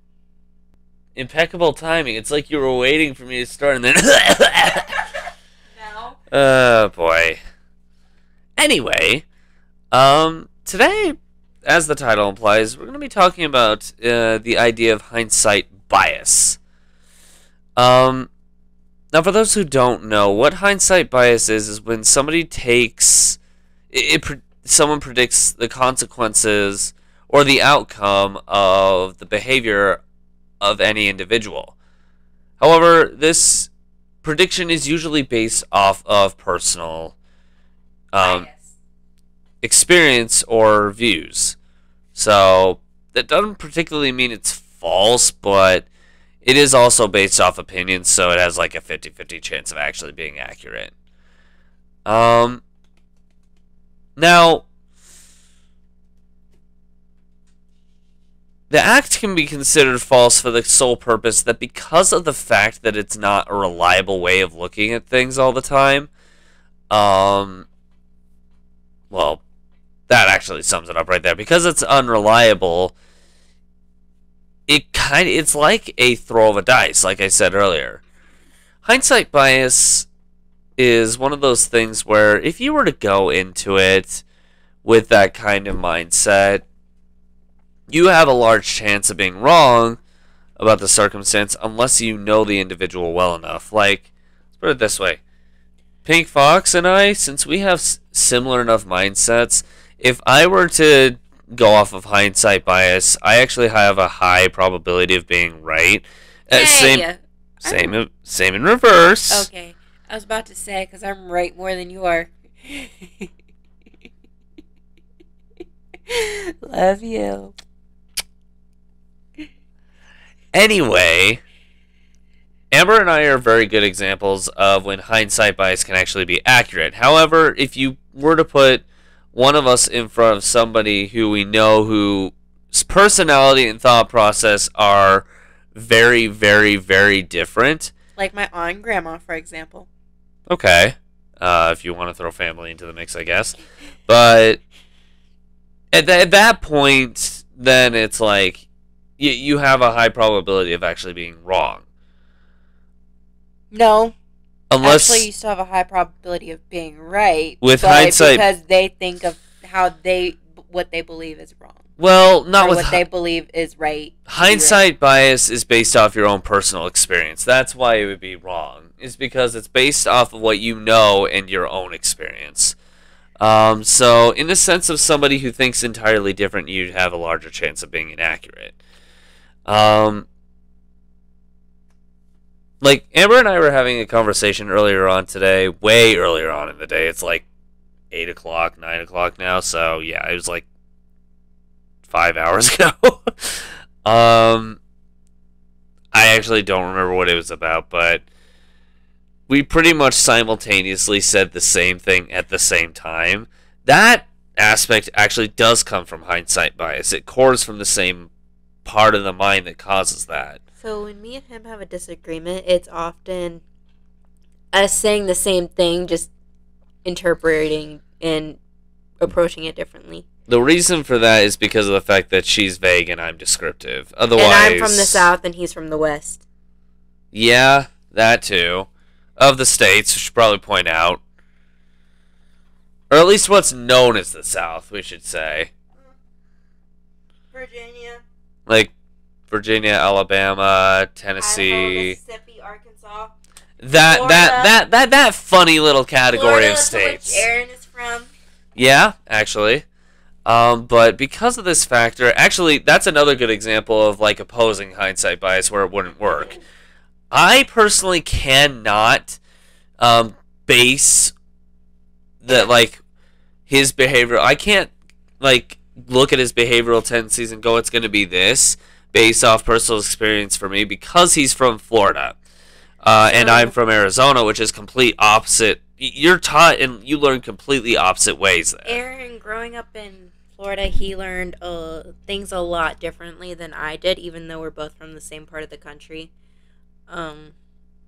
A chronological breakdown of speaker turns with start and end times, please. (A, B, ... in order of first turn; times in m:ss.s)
0:01.1-0:04.9 A
0:05.7-0:06.2 B
0:06.3-0:07.4 A
0:08.6-0:09.2 A
0:09.9-0:16.6 A
0:17.8-0:18.3 A
0:19.1-0:23.4 A
0:23.9-0:30.0 A
0:30.6-0:31.7 A
0:32.6-0:33.7 A
0:34.2-0:37.2 A
0:38.1-0:38.5 A
0:38.2-0:38.7 B
0:39.6-0:41.6 A
0:42.1-0:45.9 A
0:46.4-0:50.9 A
0:52.0-0:52.6 A
0:54.2-0:54.6 A
0:58.7-1:06.1 A
1:06.9-1:07.7 A
1:09.1-1:09.4 A
1:10.1-1:12.9 A
1:14.7-1:18.0 A
1:18.8-1:20.1 A
1:20.8-1:24.2 A
1:24.8-1:26.6 A
1:27.9-1:30.0 A
1:30.6-1:35.2 A
1:36.0-1:47.0 A
1:46.5-1:47.9 B
1:47.6-1:49.5 A
1:49.3-1:53.3 B
1:56.1-1:57.6 B
2:00.5-2:01.4 A
2:02.7-2:17.9 A
2:18.2-2:19.9 B
2:20.5-2:23.6 A
2:24.1-2:24.6 A
2:25.9-2:28.6 A
2:29.2-2:31.8 A
2:33.7-2:34.2 B
2:34.7-2:35.3 A
2:34.8-2:41.9 B
2:37.6-2:38.5 A
2:42.0-2:43.0 A
2:42.6-2:44.9 B
2:44.3-2:52.8 A
2:53.4-2:58.8 A
2:59.7-3:00.2 A
3:02.8-3:07.4 A
3:08.1-3:10.7 A
3:12.1-3:14.8 A
3:16.1-3:18.2 A
3:19.5-3:28.3 A
3:28.8-3:30.6 A
3:30.8-3:33.6 B
3:34.7-3:36.3 B
3:37.0-3:38.6 B
3:39.2-3:40.2 B
3:40.5-3:45.3 A
3:44.3-3:46.4 B
3:47.3-3:51.2 A
3:53.1-3:55.7 A
3:57.5-3:58.2 B
3:58.7-3:58.9 A
3:59.5-4:02.2 A
4:01.4-4:03.3 B
4:03.8-4:07.5 A
4:03.9-4:04.8 B
4:06.3-4:08.3 B
4:08.8-4:09.8 A
4:10.5-4:16.6 A
4:17.3-4:19.4 A
4:20.0-4:21.3 A
4:22.4-4:23.0 A
4:23.7-4:32.4 A
4:33.0-4:39.0 A
4:33.3-4:33.7 B
4:38.8-4:46.3 B
4:47.1-4:47.6 B